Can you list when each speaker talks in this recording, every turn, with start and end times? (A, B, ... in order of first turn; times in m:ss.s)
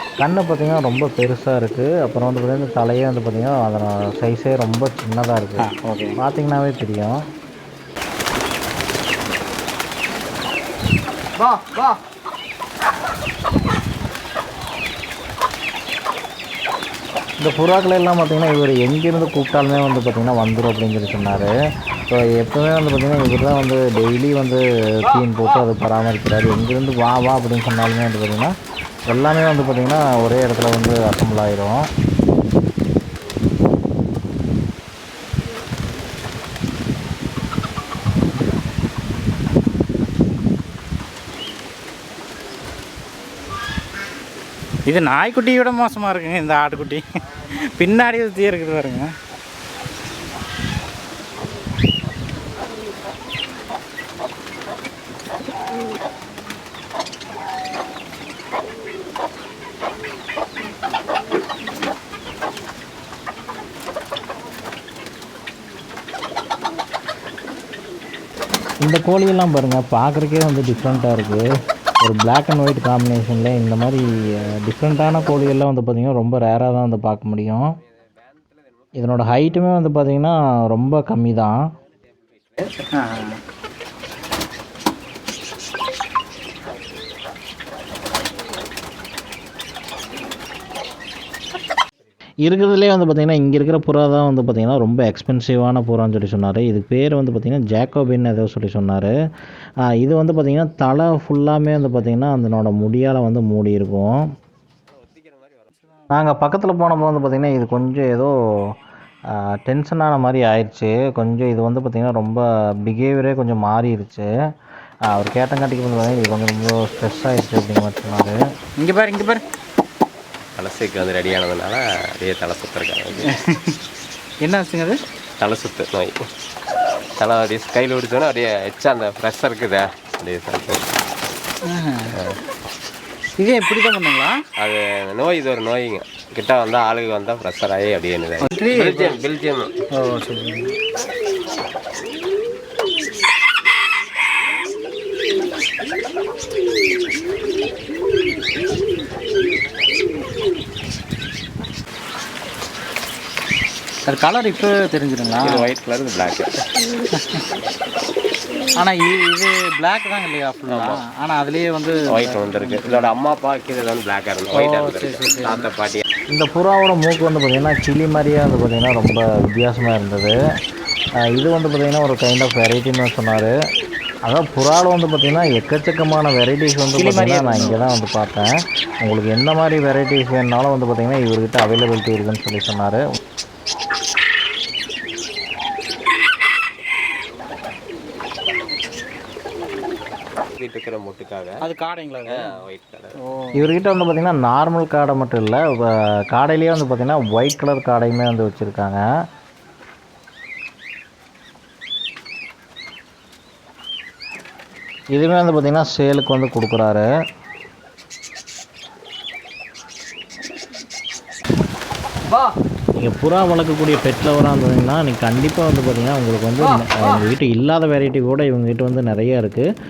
0:00.2-0:07.2 A
0:05.6-0:06.2 B
0:17.4-0:21.5 A
0:22.1-0:28.5 A
0:29.1-0:31.8 A
0:44.9-0:49.1 B
1:08.8-1:11.5 A
1:12.0-1:14.0 A
1:14.6-1:17.7 A
1:19.0-1:21.6 A
1:22.8-1:23.4 B
1:32.4-1:39.1 A
1:40.0-1:44.2 A
1:46.1-1:48.4 A
1:49.3-1:54.3 A
1:55.1-1:58.4 A
1:58.8-1:59.4 B
2:00.6-2:03.3 C
2:03.2-2:03.8 B
2:04.4-2:05.0 B
2:05.4-2:06.2 C
2:07.2-2:10.9 C
2:11.6-2:12.2 B
2:12.1-2:12.4 C
2:13.4-2:14.4 B
2:14.6-2:19.7 C
2:18.4-2:19.2 B
2:19.9-2:20.8 B
2:34.1-2:35.7 B
2:35.4-2:36.6 C
2:37.1-2:37.4 B
2:38.7-2:43.1 B
2:40.7-2:41.0 C
2:42.1-2:46.0 C
2:44.5-2:45.7 B
2:46.3-2:50.4 A
2:51.2-2:53.5 A
2:54.2-2:58.5 A
2:56.9-2:57.8 B
2:59.0-3:03.0 A
3:10.6-3:11.6 C
3:11.6-3:12.6 B
3:12.2-3:13.2 C
3:13.2-3:13.7 B
3:13.5-3:19.0 A
3:25.1-3:27.1 A
3:33.0-3:39.7 A